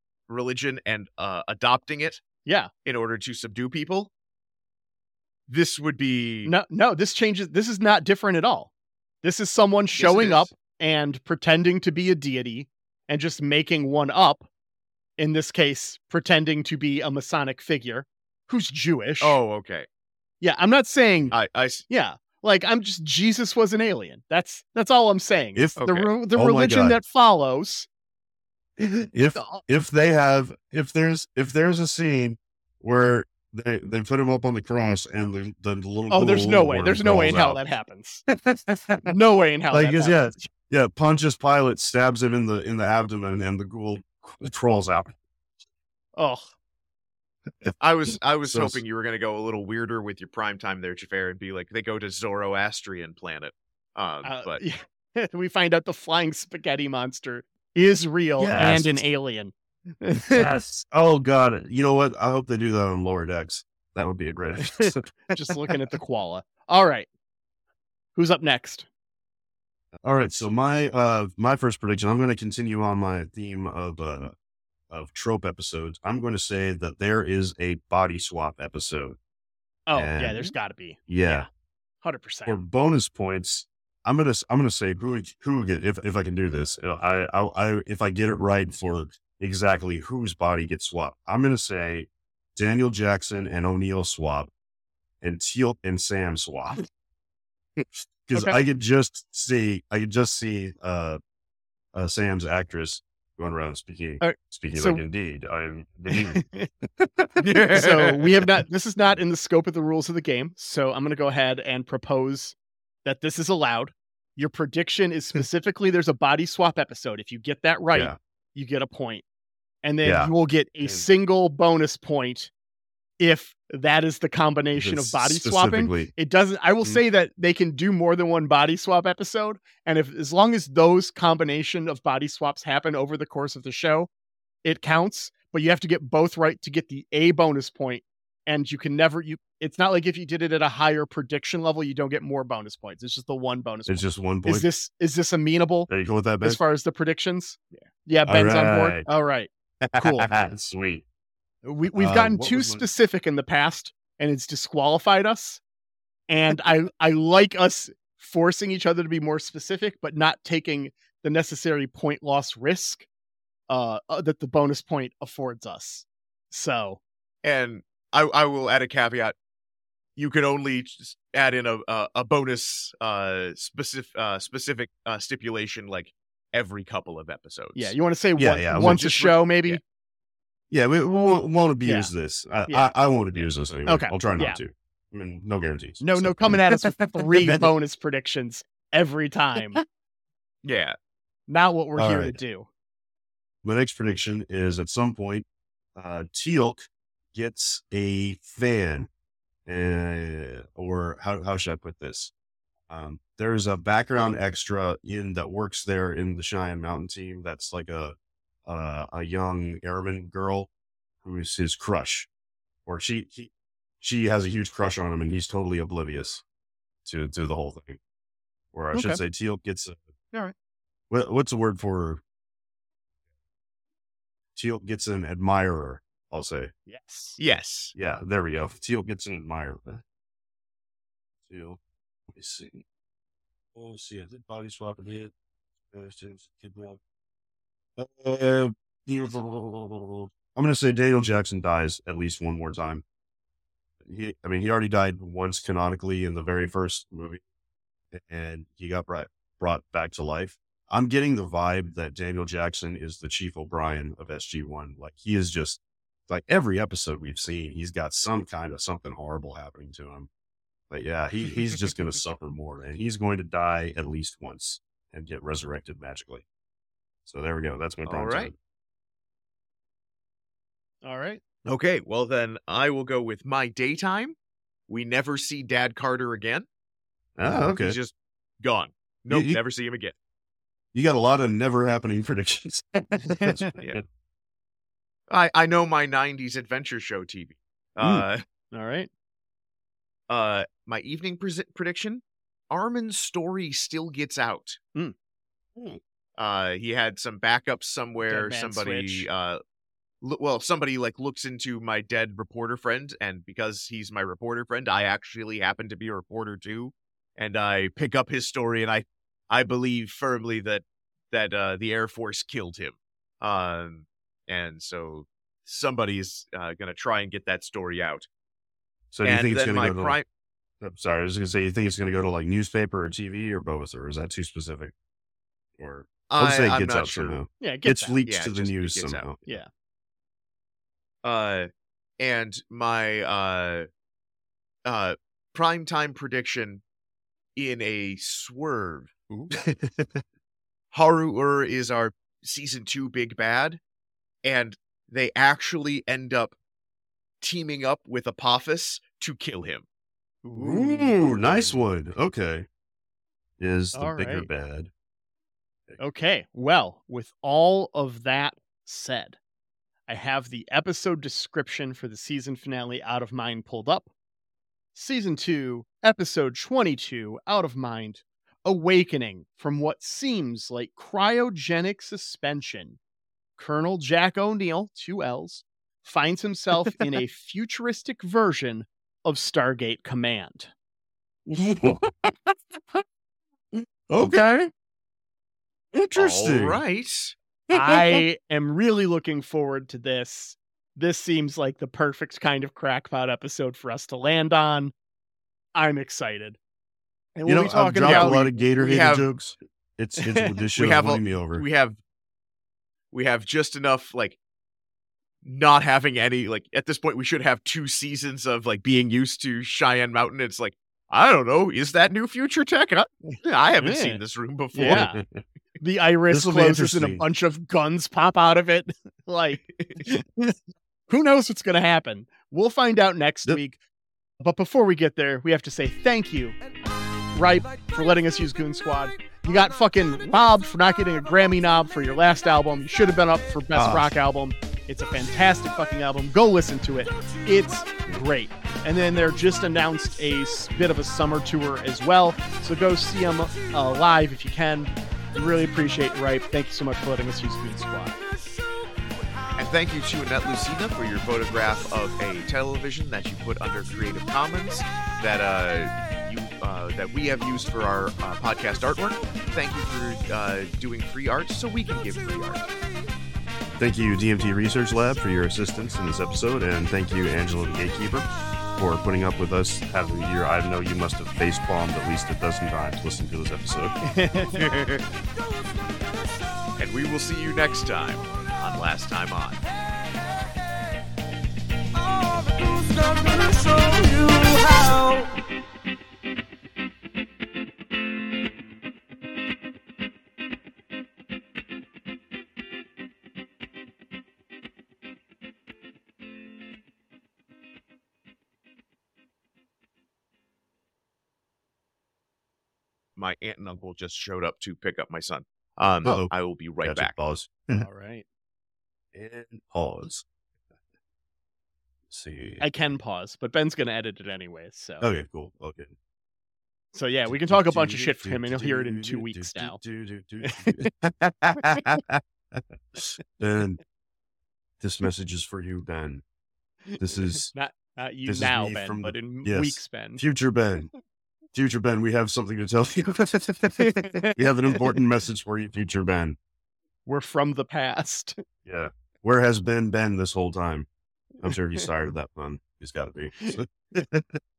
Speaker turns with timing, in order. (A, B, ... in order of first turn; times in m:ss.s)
0:00.3-0:02.2 A
0:02.4-0:02.7 B
0:02.8-0:04.1 A
0:05.5-0:06.5 A
0:06.4-0:08.7 B
0:09.2-0:14.5 B
0:10.0-0:10.5 A
0:15.2-0:19.4 B
0:19.2-0:19.9 A
0:20.4-0:21.4 B
0:21.3-0:21.8 A
0:21.9-0:27.9 B
0:25.6-0:27.0 C
0:25.8-0:26.1 A
0:28.8-0:37.6 C
0:29.4-0:29.6 B
0:36.1-0:38.2 B
0:38.3-0:39.1 C
0:39.0-0:40.4 B
0:39.7-0:45.1 C
0:46.2-0:46.5 B
0:47.8-0:54.6 A
0:48.4-0:48.8 C
0:54.2-1:00.5 B
0:58.4-0:59.0 C
1:00.3-1:05.8 C
1:04.8-1:07.1 B
1:08.2-1:08.9 B
1:10.0-1:14.3 C
1:14.9-1:19.2 C
1:19.9-1:21.5 B
1:19.9-1:20.5 C
1:21.1-1:21.5 C
1:22.0-1:22.6 B
1:22.4-1:34.5 C
1:35.2-1:36.8 C
1:37.8-1:41.2 C
1:38.3-1:38.6 B
1:41.9-1:47.4 C
1:44.2-1:45.0 B
1:46.1-1:46.7 B
1:47.4-1:48.1 A
1:47.7-1:59.2 B
1:59.8-2:02.5 B
2:00.0-2:01.1 C
2:03.2-2:14.1 B
2:04.8-2:06.1 C
2:14.6-2:30.3 B
2:23.9-2:24.7 C
2:25.9-2:26.6 C
2:28.3-2:29.1 C
2:29.8-2:31.0 C
2:31.6-2:35.6 B
2:31.9-2:32.9 C
2:36.3-2:43.1 B
2:43.7-2:47.0 B
2:47.4-2:49.4 A
2:50.2-2:58.0 A
2:57.8-2:59.8 B
2:58.4-2:59.3 C
2:58.8-2:59.8 A
3:00.7-3:07.7 C
3:01.8-3:02.1 B
3:03.9-3:04.6 B
3:06.0-3:09.8 B
3:10.6-3:11.0 A
3:11.5-3:12.7 B
3:12.0-3:12.4 C
3:13.6-3:19.1 C
3:19.7-3:22.3 C
3:22.9-3:30.7 C
3:31.2-3:32.3 C
3:32.9-3:33.5 C
3:34.0-3:36.4 C
3:37.0-3:38.0 C
3:38.7-3:40.0 C
3:38.9-3:39.2 B
3:41.1-3:42.2 C
3:44.6-3:46.7 C
3:46.9-3:47.4 B
3:47.4-3:47.9 A
3:48.0-3:50.0 C
3:51.5-3:51.8 C
3:52.3-3:52.8 C
3:53.7-3:55.3 C
3:55.9-3:57.0 C
3:58.0-4:03.0 C
4:04.0-4:07.4 C
4:08.1-4:20.3 C
4:20.9-4:26.4 C
4:27.3-4:28.6 C
4:28.1-4:28.5 A
4:31.0-4:31.4 B
4:31.7-4:34.4 A
4:34.9-4:36.7 A
4:37.4-4:38.0 C
4:37.5-4:40.1 A
4:39.3-4:39.6 C
4:40.9-4:44.0 C
4:43.4-4:43.7 B
4:45.3-4:48.4 A
4:48.0-4:48.3 C
4:48.7-4:49.1 B
4:50.3-4:54.8 A
4:56.4-4:59.6 A
4:58.3-4:59.3 B
5:00.2-5:18.3 A
5:19.1-5:20.2 C
5:19.2-5:20.2 A
5:20.8-5:24.9 C
5:25.8-5:29.6 C
5:26.3-5:27.4 A
5:27.6-5:28.2 B
5:28.3-5:29.3 A
5:31.2-5:33.9 A
5:34.8-5:36.8 A
5:37.6-5:39.1 A
5:39.6-5:40.2 C
5:40.9-5:43.8 A
5:44.4-5:46.6 A
5:47.4-5:49.9 A
5:50.4-5:51.2 B
5:50.6-5:52.7 C
5:53.6-5:54.9 C
5:53.9-5:54.5 B
5:56.0-5:59.4 B
6:00.1-6:04.1 B
6:05.0-6:13.0 B
6:13.6-6:20.7 B
6:21.5-6:23.0 C
6:23.7-6:24.7 C
6:25.9-6:26.8 C
6:26.2-6:27.4 A
6:27.7-6:28.2 C
6:27.7-6:34.9 B
6:35.8-6:36.6 B
6:37.4-6:38.7 B
6:37.5-6:41.6 C
6:38.0-6:39.3 A
6:40.2-6:40.6 B
6:40.8-6:42.0 A
6:43.1-6:44.4 A
6:45.4-6:55.1 A
6:53.3-6:54.2 B
6:54.8-6:55.2 B
6:54.8-6:55.4 C
6:55.8-7:00.6 B
6:56.3-6:57.2 C
7:01.1-7:03.8 B
7:04.4-7:06.6 B
7:07.3-7:28.2 B
7:13.8-7:14.1 C
7:29.6-7:42.7 A
7:43.7-7:54.0 C
7:54.0-7:54.7 B
7:54.5-7:55.0 A
7:56.8-7:59.6 A
8:23.2-8:27.2 A
8:26.0-8:26.3 C
8:26.8-8:27.9 C
8:27.8-8:28.2 B
8:29.1-8:30.2 C
8:32.1-8:32.6 C
8:32.6-8:35.0 B
8:35.0-8:35.9 C
8:36.9-8:39.8 B
8:37.3-8:43.8 C
8:40.4-8:40.9 B
8:44.8-8:46.2 C
8:46.9-8:50.2 B
8:47.0-8:47.5 C
8:48.3-8:50.9 C
8:51.5-8:56.4 C
8:53.8-8:54.8 B
8:57.1-8:58.4 B
8:58.6-9:00.9 C
9:01.4-9:04.4 C